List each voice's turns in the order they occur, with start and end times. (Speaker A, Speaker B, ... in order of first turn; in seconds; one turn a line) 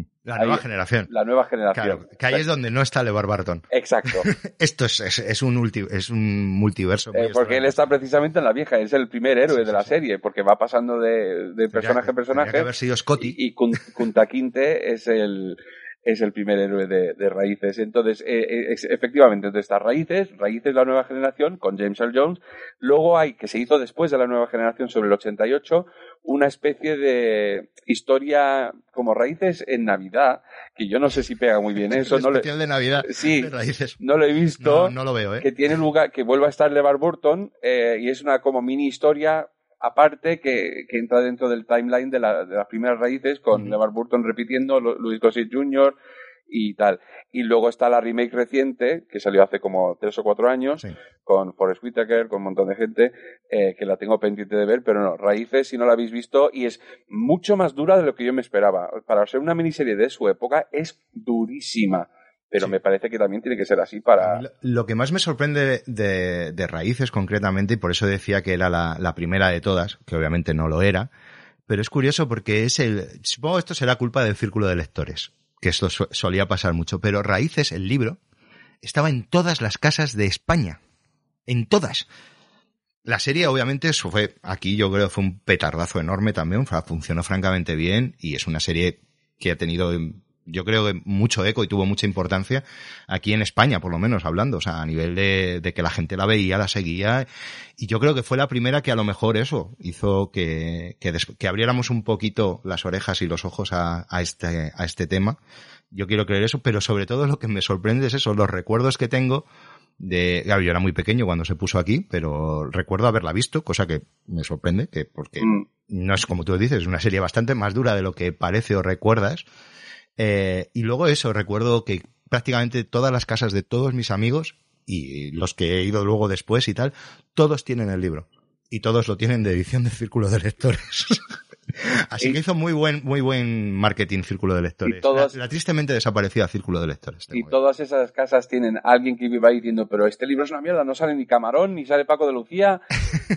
Speaker A: 0.2-1.1
Speaker B: 0.3-2.4
Speaker A: 1.7-3.6
Speaker B: 3.7-4.3
Speaker A: 4.2-7.8
Speaker B: 7.1-12.7
Speaker A: 9.5-9.9
Speaker A: 11.7-13.4
Speaker B: 13.2-32.5
Speaker A: 31.9-34.0
Speaker B: 33.0-46.0
Speaker A: 34.6-35.5
Speaker B: 46.5-64.4
Speaker A: 64.2-71.1
Speaker A: 71.7-78.2
Speaker A: 78.8-80.8
Speaker A: 81.5-82.0
Speaker A: 83.0-97.2
Speaker A: 97.8-105.4
Speaker A: 105.9-109.5
Speaker A: 110.0-119.4
Speaker A: 120.2-131.2
Speaker A: 131.8-137.5
Speaker B: 134.8-135.3
Speaker B: 137.3-142.8